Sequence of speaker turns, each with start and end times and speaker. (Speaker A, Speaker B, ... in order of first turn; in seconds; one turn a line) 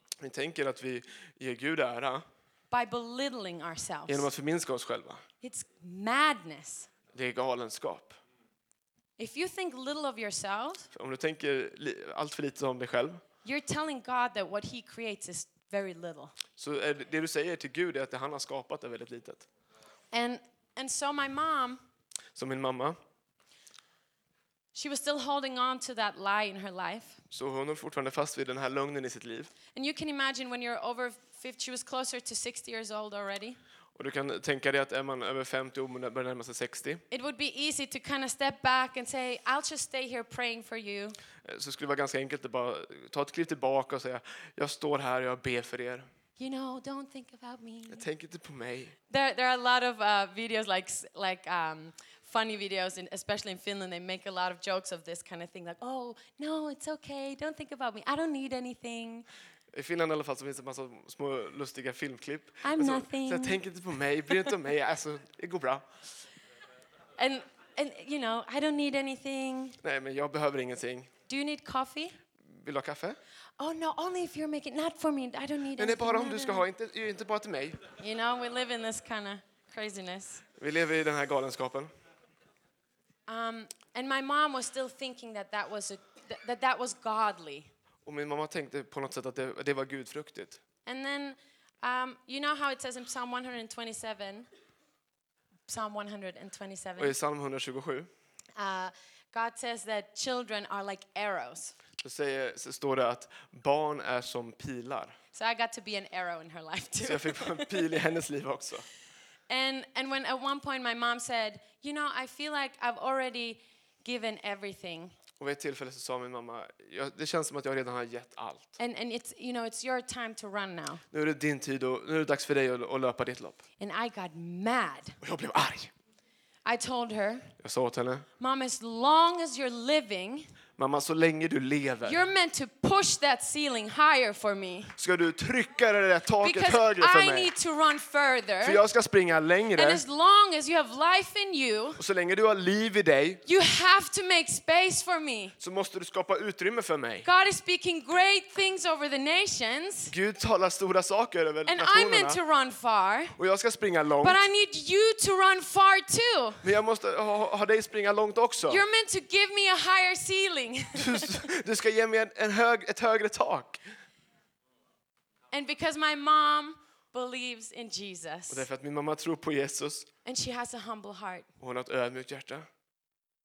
Speaker A: 0.2-2.2
Speaker B: 2.7-4.3
Speaker A: 4.1-5.2
Speaker B: 5.4-6.9
Speaker A: 7.1-8.2
Speaker B: 9.2-10.9
Speaker A: 10.9-13.2
Speaker B: 13.4-16.3
Speaker A: 16.6-19.4
Speaker B: 20.1-21.8
Speaker A: 22.3-23.0
Speaker B: 24.7-27.2
Speaker A: 27.3-29.5
Speaker B: 29.7-33.6
Speaker A: 34.0-37.0
Speaker B: 37.1-41.2
Speaker A: 41.4-46.1
Speaker B: 46.4-48.0
Speaker A: 47.9-49.0
Speaker B: 49.1-59.2
Speaker A: 59.7-65.8
Speaker B: 62.6-63.6
Speaker B: 67.2-69.8
Speaker A: 69.8-71.1
Speaker B: 71.3-72.2
Speaker A: 72.5-73.2
Speaker B: 73.6-76.6
Speaker A: 75.8-77.8
Speaker B: 78.0-80.4
Speaker A: 80.6-81.9
Speaker B: 83.3-87.7
Speaker A: 88.0-90.6
Speaker B: 90.8-94.5
Speaker B: 95.7-97.1
Speaker A: 97.0-98.1
Speaker B: 98.5-101.8
Speaker A: 102.0-105.2
Speaker B: 105.3-107.9
Speaker A: 107.0-108.9
Speaker B: 109.5-115.1
Speaker A: 115.4-118.8
Speaker B: 118.8-121.0
Speaker A: 121.1-123.6
Speaker B: 123.8-125.2
Speaker A: 125.2-125.9
Speaker B: 126.6-127.5
Speaker A: 127.6-128.3
Speaker B: 128.4-130.5
Speaker A: 130.8-132.2
Speaker B: 132.0-134.9
Speaker A: 135.0-137.5
Speaker B: 136.4-138.8
Speaker A: 138.6-140.0
Speaker B: 139.8-142.0
Speaker A: 142.0-143.4
Speaker B: 143.4-145.6
Speaker A: 145.6-147.3
Speaker B: 147.2-150.1
Speaker A: 150.1-152.4
Speaker B: 151.7-153.3
Speaker A: 153.3-154.4
Speaker B: 154.2-156.7
Speaker A: 156.6-158.8
Speaker B: 158.7-161.3
Speaker A: 161.0-163.8
Speaker B: 165.5-168.7
Speaker A: 168.5-170.1
Speaker B: 170.2-171.5
Speaker A: 171.6-172.7